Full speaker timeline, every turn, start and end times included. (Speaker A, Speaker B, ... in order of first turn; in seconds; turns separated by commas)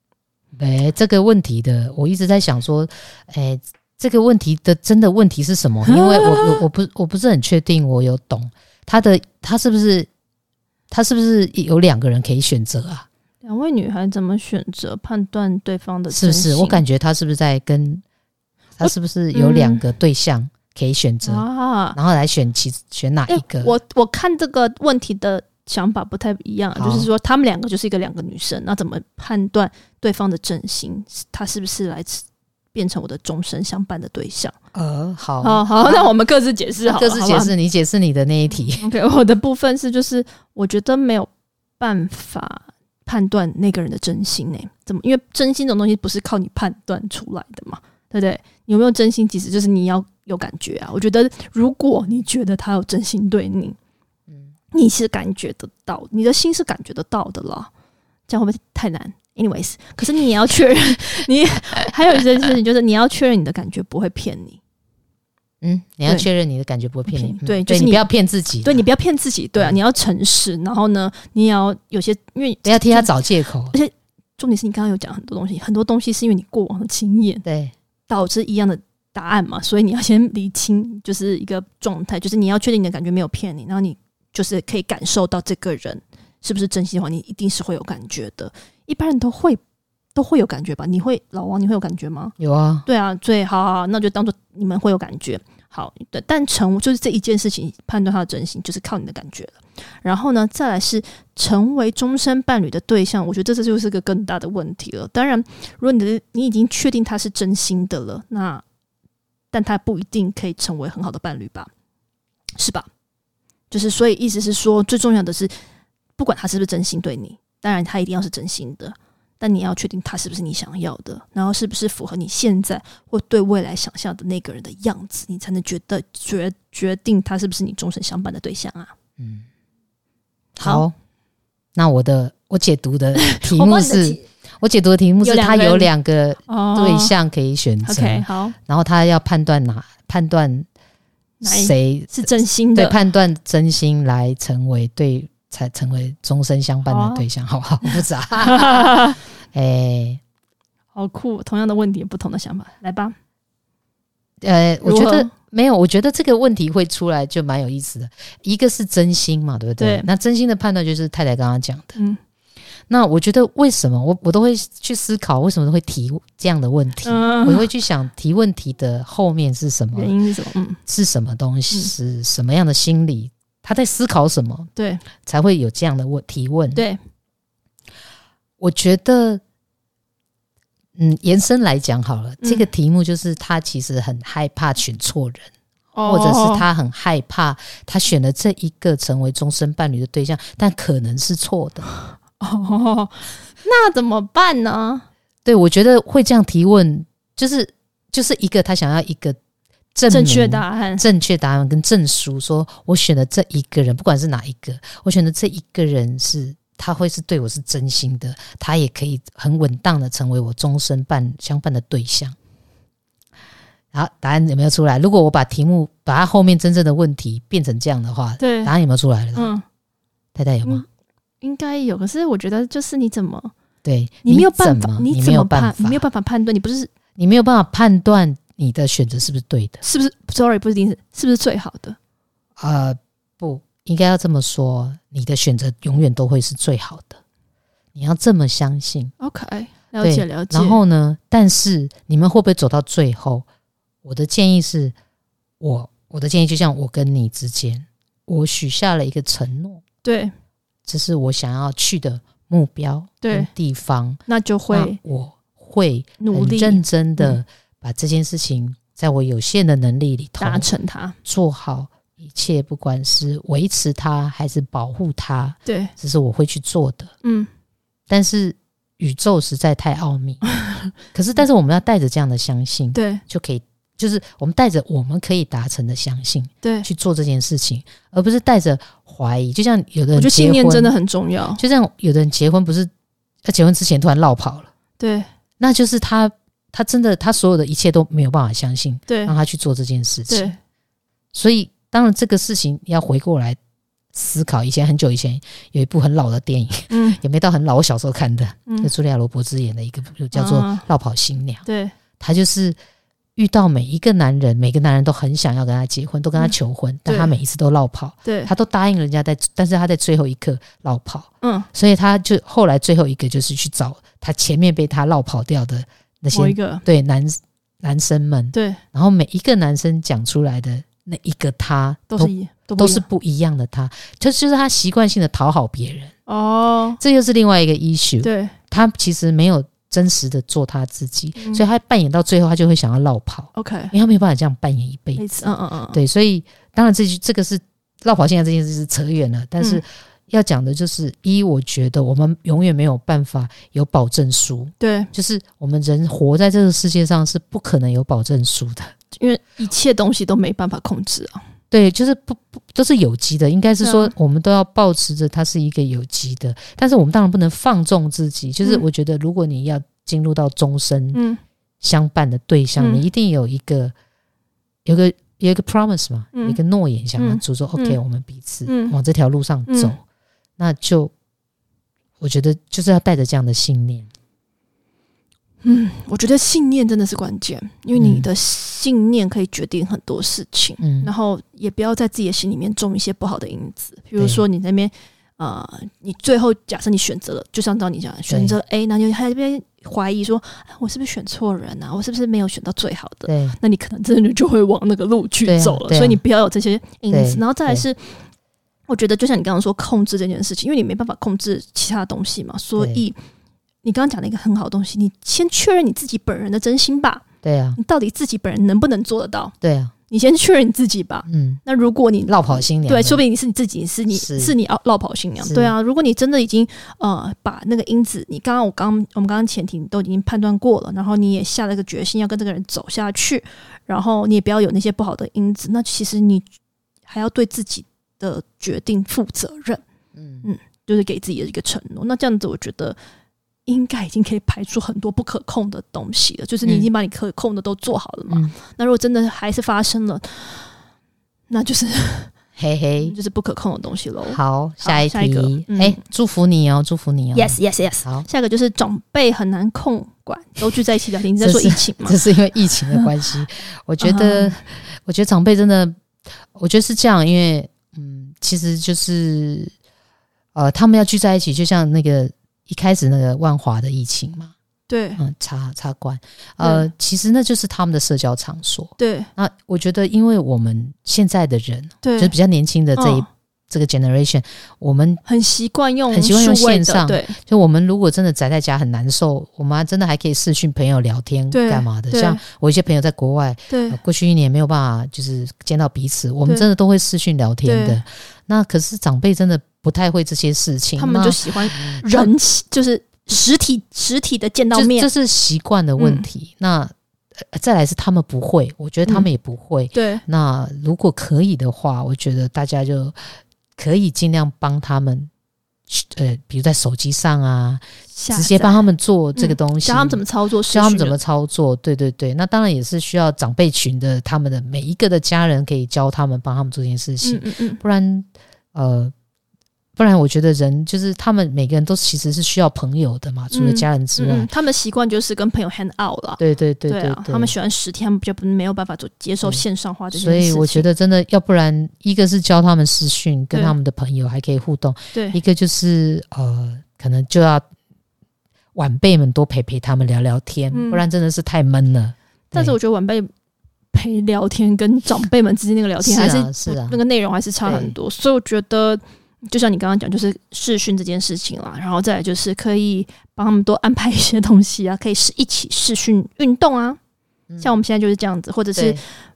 Speaker A: 0.6-10.1, Speaker B: 5.9-6.6, Speaker A: 10.9-13.1, Speaker B: 13.4-16.8, Speaker A: 16.1-18.0, Speaker A: 18.8-23.7, Speaker B: 18.8-19.9, Speaker B: 21.2-22.0, Speaker B: 23.3-34.5, Speaker A: 26.8-27.1, Speaker A: 34.7-36.1, Speaker B: 35.4-37.5, Speaker A: 36.9-38.9, Speaker B: 38.8-53.8, Speaker B: 54.7-57.7, Speaker B: 58.3-64.6, Speaker A: 65.6-68.8, Speaker B: 67.1-68.0, Speaker B: 68.6-73.2, Speaker A: 72.7-73.8, Speaker B: 73.7-77.5, Speaker A: 77.5-77.7, Speaker B: 78.1-89.6, Speaker B: 90.2-108.6, Speaker A: 92.4-92.8, Speaker B: 109.5-111.7, Speaker B: 112.6-112.9, Speaker B: 113.7-115.5, Speaker B: 116.2-128.9, Speaker A: 129.2-129.5, Speaker B: 130.6-130.8, Speaker A: 130.6-130.9, Speaker A: 131.8-140.7, Speaker B: 133.2-134.2, Speaker B: 135.2-135.9, Speaker B: 136.5-137.1, Speaker B: 137.8-138.6, Speaker B: 141.4-143.0, Speaker A: 141.4-149.0, Speaker B: 146.9-147.2, Speaker B: 147.8-149.2, Speaker A: 149.5-150.2, Speaker B: 150.9-153.2, Speaker A: 154.4-162.0, Speaker B: 154.8-155.3, Speaker B: 159.8-160.1, Speaker B: 161.9-162.2, Speaker A: 162.9-170.2, Speaker B: 167.1-167.7, Speaker B: 169.9-170.8, Speaker A: 170.9-174.7, Speaker B: 174.8-175.0, Speaker A: 175.2-176.8, Speaker B: 176.8-177.0, Speaker A: 178.6-179.4, Speaker A: 181.0-185.5, Speaker B: 182.4-182.7, Speaker B: 185.9-186.7, Speaker A: 186.0-191.9, Speaker B: 192.4-195.1, Speaker A: 195.4-199.4, Speaker A: 199.9-212.4, Speaker B: 200.1-201.1, Speaker A: 213.9-219.5, Speaker B: 218.4-218.7, Speaker B: 219.3-219.6, Speaker A: 220.3-220.8, Speaker B: 221.4-223.5, Speaker A: 223.8-226.0, Speaker B: 224.2-226.9, Speaker A: 227.2-229.8, Speaker B: 229.8-232.0, Speaker A: 232.6-237.2, Speaker A: 238.0-239.1, Speaker B: 239.2-240.8, Speaker A: 240.0-243.5, Speaker A: 244.0-244.9, Speaker A: 245.6-249.8, Speaker B: 250.0-250.3, Speaker A: 250.9-260.7, Speaker B: 253.2-253.5, Speaker B: 254.3-255.0, Speaker B: 256.2-257.4, Speaker B: 260.4-261.2, Speaker A: 261.2-267.1, Speaker B: 265.7-265.9, Speaker B: 267.2-267.5, Speaker A: 268.1-270.5, Speaker B: 270.5-270.9, Speaker A: 271.1-280.9, Speaker B: 272.9-273.2, Speaker B: 280.2-281.6, Speaker A: 281.6-282.9, Speaker A: 283.4-284.7, Speaker B: 285.0-285.3, Speaker A: 285.6-290.5, Speaker B: 289.1-289.3, Speaker B: 290.3-290.6, Speaker A: 291.3-293.6, Speaker A: 294.1-301.6, Speaker B: 296.9-297.2, Speaker B: 300.3-300.9, Speaker B: 301.6-302.0, Speaker A: 302.2-302.8, Speaker A: 303.4-326.1, Speaker B: 307.1-307.3, Speaker B: 308.2-308.5, Speaker B: 311.4-311.7, Speaker B: 316.3-316.8, Speaker B: 318.5-318.8, Speaker B: 322.1-323.1, Speaker B: 326.3-327.0, Speaker A: 327.0-335.3, Speaker B: 328.2-328.6, Speaker B: 331.4-331.6, Speaker B: 333.6-333.9, Speaker B: 335.2-336.0, Speaker A: 335.9-348.9, Speaker B: 344.8-345.1, Speaker B: 349.2-351.4, Speaker A: 351.7-361.2, Speaker B: 353.8-354.1, Speaker B: 361.1-361.4, Speaker A: 361.8-363.9, Speaker B: 362.8-363.0, Speaker A: 364.9-370.0, Speaker B: 366.3-366.6, Speaker B: 367.2-368.0, Speaker B: 368.7-368.9, Speaker B: 369.7-369.9, Speaker A: 370.6-371.1, Speaker A: 372.2-374.1, Speaker B: 375.6-398.2, Speaker A: 377.9-378.3, Speaker A: 380.8-381.1, Speaker A: 384.2-384.4, Speaker A: 388.3-388.6, Speaker A: 393.3-393.6, Speaker A: 395.4-396.2, Speaker A: 397.1-397.9, Speaker B: 398.9-403.2, Speaker A: 402.8-403.0, Speaker B: 403.8-407.2, Speaker A: 407.4-407.8, Speaker B: 407.8-409.5, Speaker A: 409.6-409.9, Speaker B: 410.1-426.5, Speaker A: 411.3-411.6, Speaker A: 412.3-413.2, Speaker A: 414.1-414.5, Speaker A: 415.4-415.7, Speaker B: 427.1-429.8, Speaker A: 430.2-430.5, Speaker B: 430.4-433.0, Speaker B: 433.7-440.7, Speaker A: 436.6-436.9, Speaker B: 441.5-442.3, Speaker A: 442.6-443.1, Speaker B: 443.0-446.0, Speaker A: 444.3-448.3, Speaker B: 447.3-452.2, Speaker A: 451.4-456.0, Speaker B: 454.0-454.6, Speaker A: 456.5-459.7, Speaker A: 460.6-464.5, Speaker B: 464.9-465.2, Speaker A: 465.2-475.2, Speaker B: 466.6-466.9, Speaker B: 469.0-469.3, Speaker B: 472.0-472.3, Speaker B: 473.0-473.3, Speaker B: 475.2-477.4, Speaker A: 476.1-492.3, Speaker B: 481.5-482.4, Speaker B: 483.7-484.0, Speaker B: 487.6-488.0, Speaker B: 491.0-495.1, Speaker A: 494.7-505.3, Speaker B: 496.0-496.3, Speaker B: 499.9-500.2, Speaker A: 505.9-519.1, Speaker B: 508.1-511.2, Speaker B: 517.2-517.8, Speaker A: 520.0-524.5, Speaker B: 523.5-530.9, Speaker A: 526.4-527.5, Speaker A: 530.1-537.7, Speaker B: 535.1-535.4, Speaker A: 538.8-542.8, Speaker B: 540.7-541.0, Speaker B: 542.5-543.3, Speaker B: 543.9-557.0, Speaker A: 546.0-547.0, Speaker A: 547.6-547.9, Speaker B: 557.6-559.0, Speaker A: 558.8-559.0